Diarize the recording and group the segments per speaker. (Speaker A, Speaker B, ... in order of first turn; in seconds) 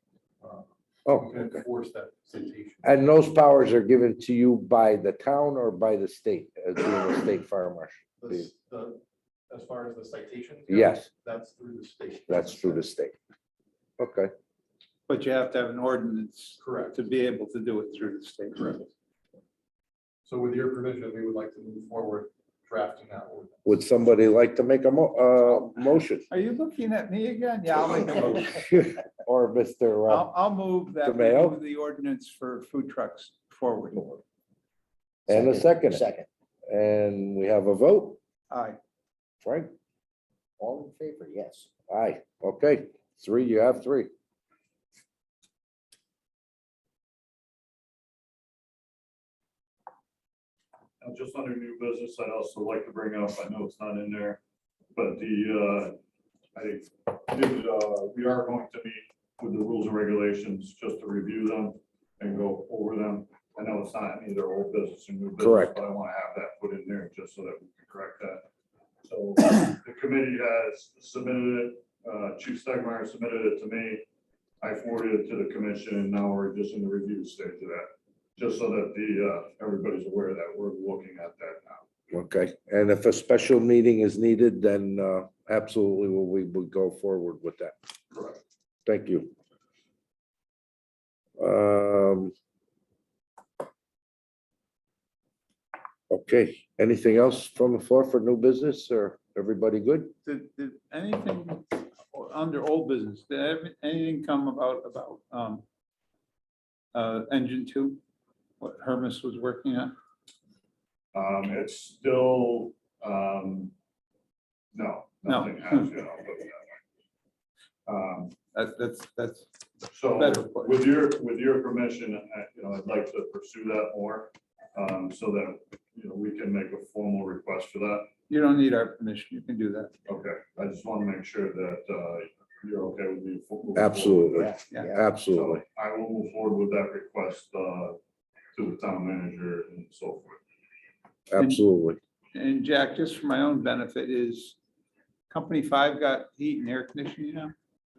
Speaker A: 0.4-2.9, 8.2-12.8, 16.6-17.0, 20.3-23.6
Speaker B: 1.1-1.6, 2.8-8.5, 10.7-11.1, 12.3-13.1, 14.0-14.3, 23.6-26.3, 28.4-30.3, 31.0-31.6, 35.3-36.0, 36.7-38.2, 39.4-39.7, 41.9-44.1, 65.4-65.8, 82.1-87.7, 88.8-89.3, 91.4-92.3, 96.1-100.1, 133.8-135.6, 141.3-142.0
Speaker C: 15.1-18.8, 26.3-28.7, 30.1-34.2, 38.5-38.8, 100.2-105.6, 106.9-108.0, 108.6-109.9, 115.2-115.9, 118.5-119.5, 120.2-120.8, 128.3-129.9, 142.3-144.6, 145.3-147.5
Speaker D: 35.3-36.3, 40.6-41.7, 134.3-135.0
Speaker E: 51.0-54.4, 54.9-56.0, 56.5-68.5, 69.0-74.0, 74.6-81.8, 88.1-88.4, 111.1-113.7, 114.7-116.7, 117.8-118.4, 119.9-128.1, 130.1-134.5, 135.3-138.0, 138.5-140.4